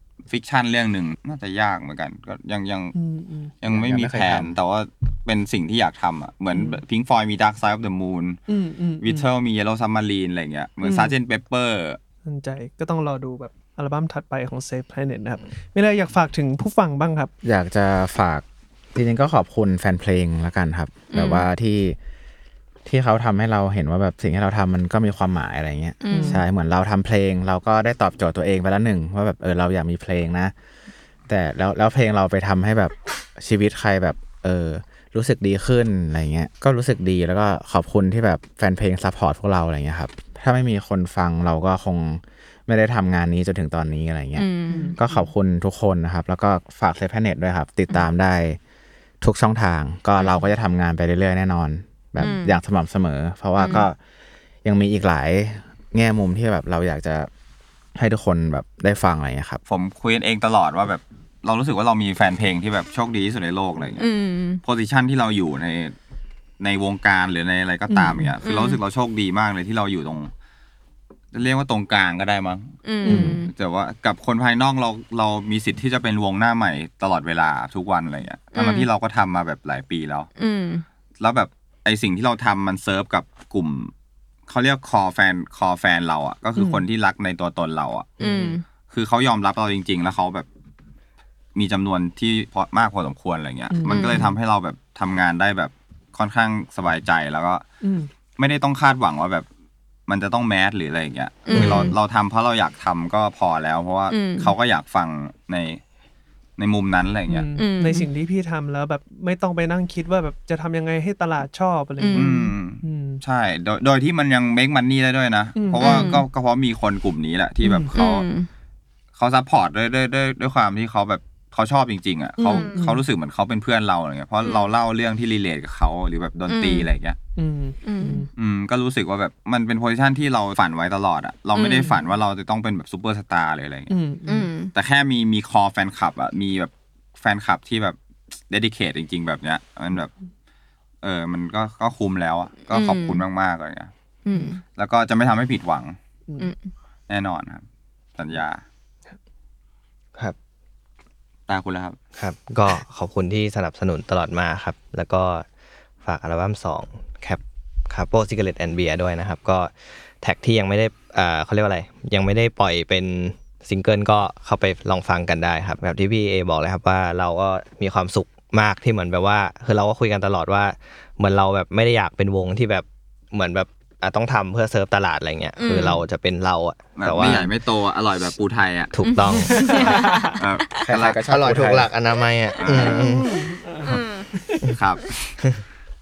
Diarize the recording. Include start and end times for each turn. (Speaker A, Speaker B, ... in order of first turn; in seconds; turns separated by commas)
Speaker A: 0.3-2.9, Speaker B: 2.9-3.5, Speaker A: 3.6-8.4, Speaker C: 3.6-4.6, Speaker B: 6.5-6.8, Speaker B: 8.5-9.3, Speaker A: 9.0-12.0, Speaker B: 12.2-17.3, Speaker C: 17.4-22.0, Speaker D: 21.1-21.4, Speaker C: 22.8-30.5, Speaker D: 26.0-26.4, Speaker B: 26.1-26.4, Speaker C: 31.3-48.6, Speaker D: 44.4-44.9, Speaker B: 44.7-45.3, Speaker C: 49.2-54.0, Speaker D: 52.2-52.6, Speaker D: 53.6-53.9, Speaker C: 54.6-57.3, Speaker C: 57.9-59.6, Speaker A: 59.7-64.1, Speaker D: 64.0-64.6, Speaker A: 64.6-65.9, Speaker A: 66.6-70.3, Speaker B: 67.9-68.3, Speaker D: 68.4-68.8, Speaker A: 71.3-80.3, Speaker D: 72.8-73.5, Speaker B: 73.0-73.4, Speaker D: 78.5-78.9, Speaker D: 80.4-80.8, Speaker A: 81.2-83.9, Speaker A: 84.5-88.1, Speaker B: 86.5-86.8, Speaker E: 88.2-88.6, Speaker D: 88.2-88.6, Speaker A: 88.9-90.5, Speaker A: 91.5-97.6, Speaker B: 93.7-94.4, Speaker D: 93.9-94.3, Speaker B: 97.8-98.1, Speaker A: 98.4-99.5, Speaker A: 100.1-105.8, Speaker D: 101.5-101.9, Speaker E: 101.5-101.9, Speaker B: 101.5-101.9, Speaker D: 104.1-104.5, Speaker A: 106.6-107.5, Speaker B: 107.3-113.2, Speaker D: 107.5-108.1, Speaker D: 112.0-112.5, Speaker A: 112.1-118.3, Speaker B: 115.6-116.2, Speaker D: 115.8-116.2, Speaker B: 117.6-117.9, Speaker D: 118.0-118.5, Speaker A: 119.1-127.2, Speaker B: 122.4-123.0, Speaker D: 122.5-122.8, Speaker D: 124.4-124.7, Speaker D: 126.5-126.9, Speaker B: 127.3-128.3, Speaker D: 127.8-128.3, Speaker A: 128.3-133.9, Speaker D: 131.5-131.9, Speaker B: 133.9-134.5, Speaker D: 134.3-134.7, Speaker A: 134.7-138.0, Speaker A: 138.5-140.1, Speaker A: 141.0-143.9, Speaker D: 142.7-143.2, Speaker D: 144.2-144.6, Speaker A: 144.7-146.0, Speaker D: 146.4-146.7, Speaker A: 147.1-147.6, Speaker A: 148.2-148.6, Speaker A: 151.5-151.9, Speaker E: 152.2-155.4, Speaker E: 156.0-177.4, Speaker D: 175.6-176.0, Speaker A: 177.0-178.9, Speaker E: 178.9-179.8, Speaker D: 179.0-180.9, Speaker B: 179.3-180.4, Speaker A: 180.3-181.2, Speaker C: 180.8-181.9, Speaker E: 181.2-183.4, Speaker A: 182.6-183.1, Speaker B: 182.8-184.8, Speaker D: 183.8-184.3, Speaker A: 184.7-185.4